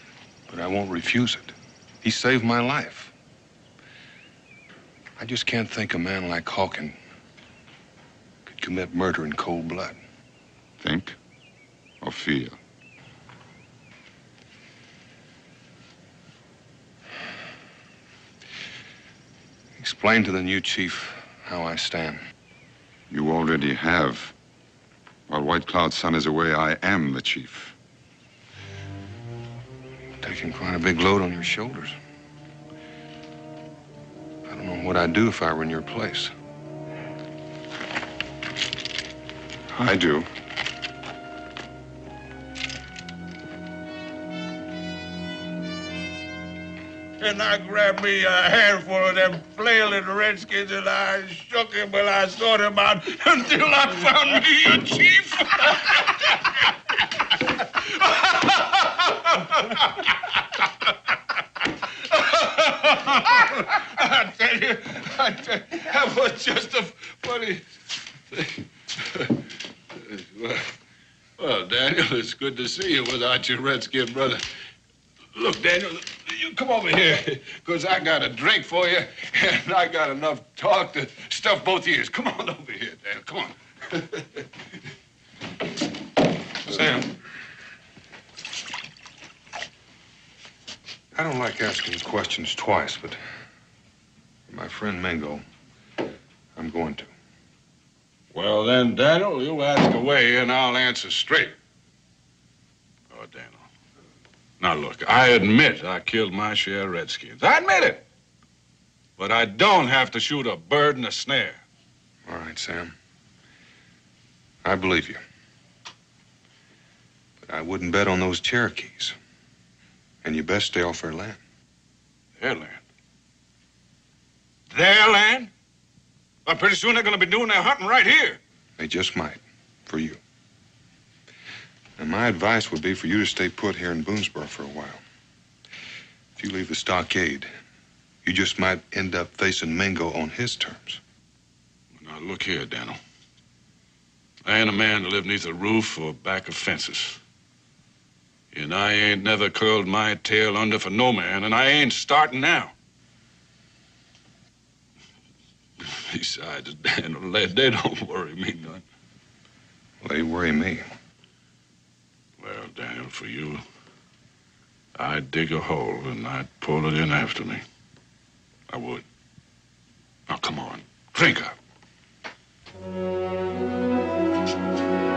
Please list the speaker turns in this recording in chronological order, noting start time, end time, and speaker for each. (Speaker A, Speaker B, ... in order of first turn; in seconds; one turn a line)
Speaker A: 0.5-3.1
Speaker A: 5.2-7.0
Speaker A: 8.5-10.0
Speaker B: 10.8-11.2
Speaker B: 12.0-12.6
Speaker A: 19.8-22.2
Speaker B: 23.1-24.3
Speaker B: 25.3-27.8
Speaker A: 30.2-32.0
Speaker A: 34.5-36.3
Speaker B: 39.7-40.3
Speaker C: 47.2-56.1
Speaker C: 58.1-60.0
Speaker C: 62.1-67.6
Speaker C: 68.3-69.3
Speaker C: 70.0-70.7
Speaker C: 71.4-74.4
Speaker C: 75.3-84.2
Speaker A: 86.7-87.1
Speaker A: 91.1-93.2
Speaker A: 94.5-95.4
Speaker A: 96.5-97.1
Speaker C: 98.3-101.5
Speaker C: 103.1-103.7
Speaker C: 104.6-108.0
Speaker C: 109.2-111.6
Speaker A: 112.3-112.9
Speaker A: 114.6-115.2
Speaker A: 117.4-119.2
Speaker A: 120.2-121.4
Speaker C: 122.4-122.8
Speaker C: 124.7-125.5
Speaker C: 126.5-128.4
Speaker A: 128.8-130.2
Speaker A: 132.0-135.0
Speaker A: 136.4-137.5
Speaker A: 138.2-141.0
Speaker C: 142.0-143.0
Speaker C: 144.4-147.2
Speaker C: 148.5-152.7
Speaker C: 155.8-158.8
Speaker A: 160.0-160.8
Speaker C: 162.4-163.6
Speaker C: 165.0-167.6
Speaker C: 168.7-169.0
Speaker C: 170.3-171.6